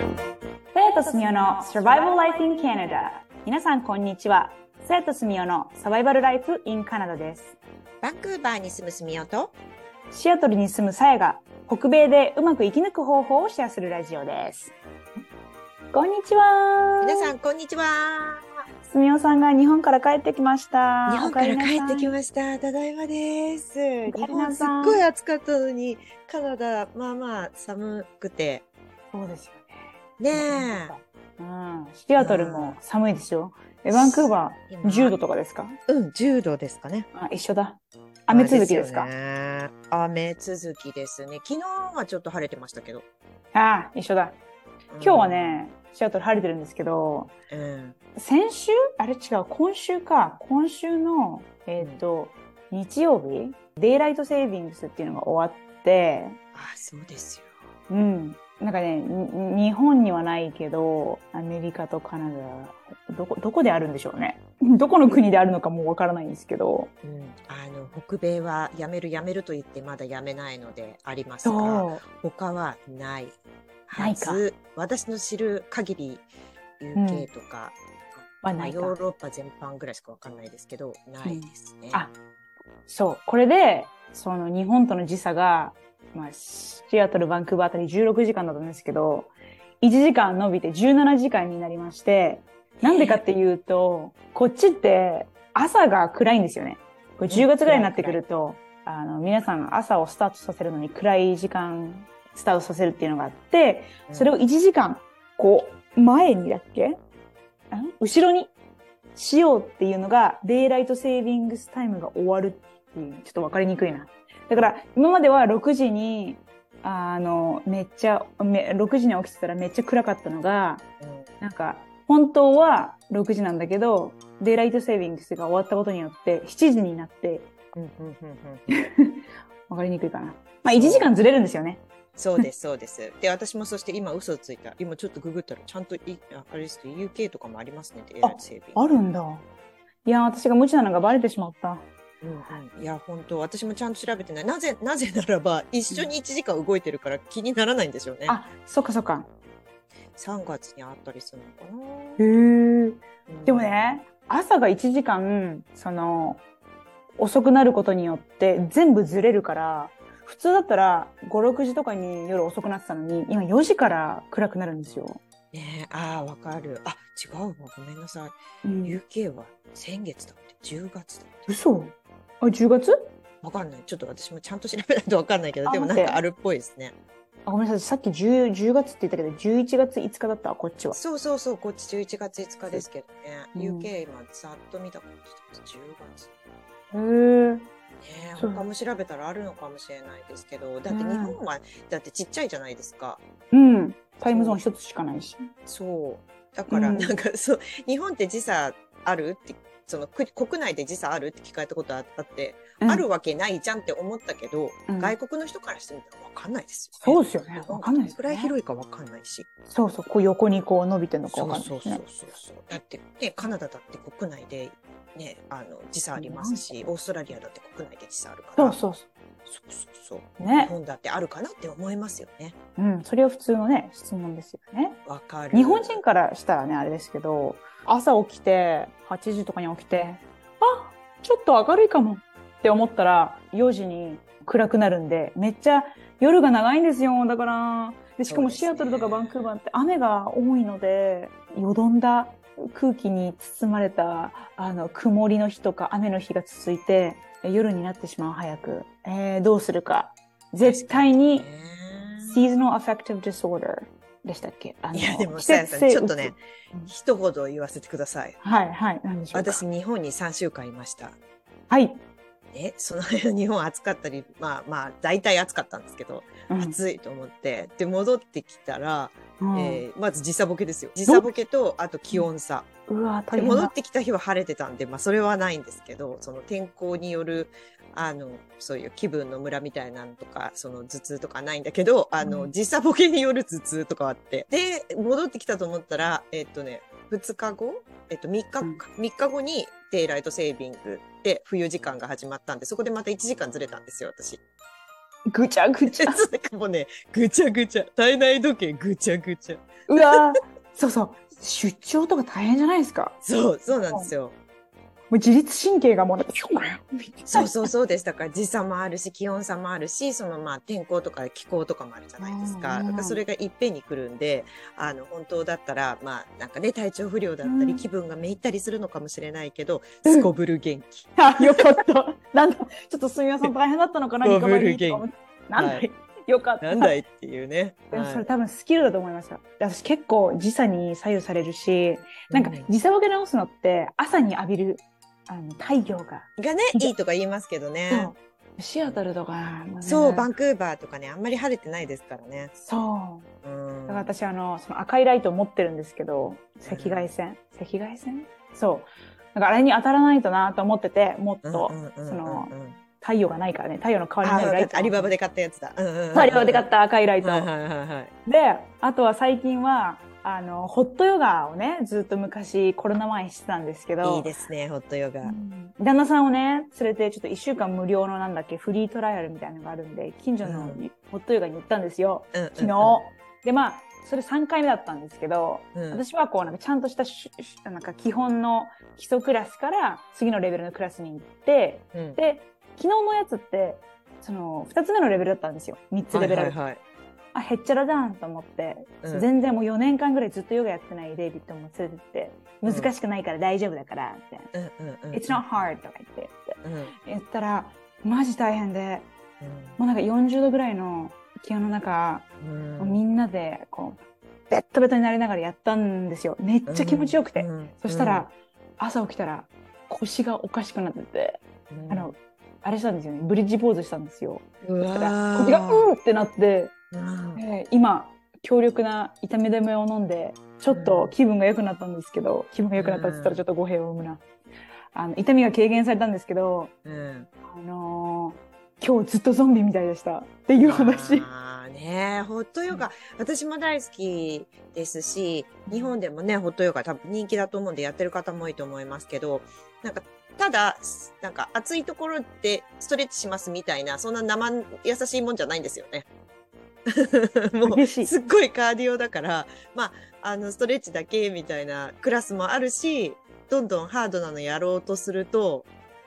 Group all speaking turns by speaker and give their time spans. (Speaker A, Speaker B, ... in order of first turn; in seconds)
Speaker A: 0.7-7.5, 10.1-14.7, 15.9-17.3, 18.8-22.1, 24.1-25.0, 29.1-29.8, 30.3-35.8, 37.1-39.1, 43.5-44.4, 45.0-47.3, 48.1-56.3, 57.9-66.9, 71.4-72.0, 74.0-74.4, 76.9-77.3, 78.4-79.0, 81.2-82.1, 82.9-107.0, 107.7-108.5, 109.1-120.8, 121.4-127.5, 128.7-131.8, 138.2-139.4, 140.1-141.8, 148.2-149.3, 152.2-156.4, 157.2-165.2, 168.6-169.0, 171.5-173.1, 175.6-176.2, 177.4-181.0, 183.5-183.9, 186.9-187.7, 188.3-188.7, 190.9-191.4, 193.5-195.5, 196.7-197.1, 202.8-203.1, 204.9-205.2, 207.0-208.5, 209.7-212.0, 216.2-216.8, 218.6-219.1, 220.4-220.7, 222.8-225.0, 225.5-251.4, 252.2-256.9, 258.4-259.6, 261.7-262.0, 266.5-266.8, 269.4-269.8, 271.1-271.3, 272.9-273.7, 282.2-282.5, 295.3-296.2, 299.9-303.2, 303.7-304.1, 305.1-307.7, 312.2-313.2, 317.4-317.8, 321.2-326.9, 327.9-336.9, 337.9-340.3, 342.6-343.3, 343.9-355.1, 356.1-357.5, 358.2-364.3, 365.2-386.6, 387.3-394.5, 395.1-399.1, 399.8-402.3, 402.8-416.7, 417.4-424.2, 424.9-426.7, 427.4-431.3, 435.6-435.9, 447.6-448.1
Speaker B: 8.0-9.5, 17.0-18.5, 21.1-28.6, 30.2-30.9, 32.1-32.8, 33.9-35.1, 35.9-37.1, 38.3-43.0, 44.9-45.6, 47.5-48.0, 56.5-57.5, 67.0-73.4, 73.9-76.2, 76.8-82.1, 92.8-93.2, 97.3-98.2, 104.1-104.3, 121.0-121.3, 127.7-128.7, 130.7-131.1, 132.2-138.9, 142.2-148.4, 150.1-152.2, 153.3-153.8, 165.5-171.5, 173.4-176.9, 180.9-186.3, 188.0-193.2, 194.2-194.6, 195.7-209.5, 211.3-218.8, 219.4-222.5, 225.1-226.0, 238.3-239.6, 250.6-252.4, 254.9-256.4, 256.9-258.4, 259.3-261.2, 262.5-272.7, 273.3-294.4, 295.9-299.8, 303.2-304.4, 307.3-321.6, 324.2-325.0, 325.6-325.9, 326.6-328.2, 332.3-332.7, 336.4-338.1, 339.8-342.5, 343.4-344.1, 346.6-347.1, 351.4-352.8, 354.2-356.7, 357.2-358.1, 364.0-365.3, 370.4-370.8, 372.3-373.0, 375.7-376.0, 381.9-382.2, 386.1-386.8, 389.0-389.3, 392.6-392.9, 394.5-395.4, 396.6-396.9, 399.4-399.8, 402.4-403.0, 406.6-408.3, 411.7-412.1, 414.6-415.9, 416.9-417.4, 420.7-421.1, 422.7-423.4, 426.8-427.3, 430.6-446.1, 447.0-455.7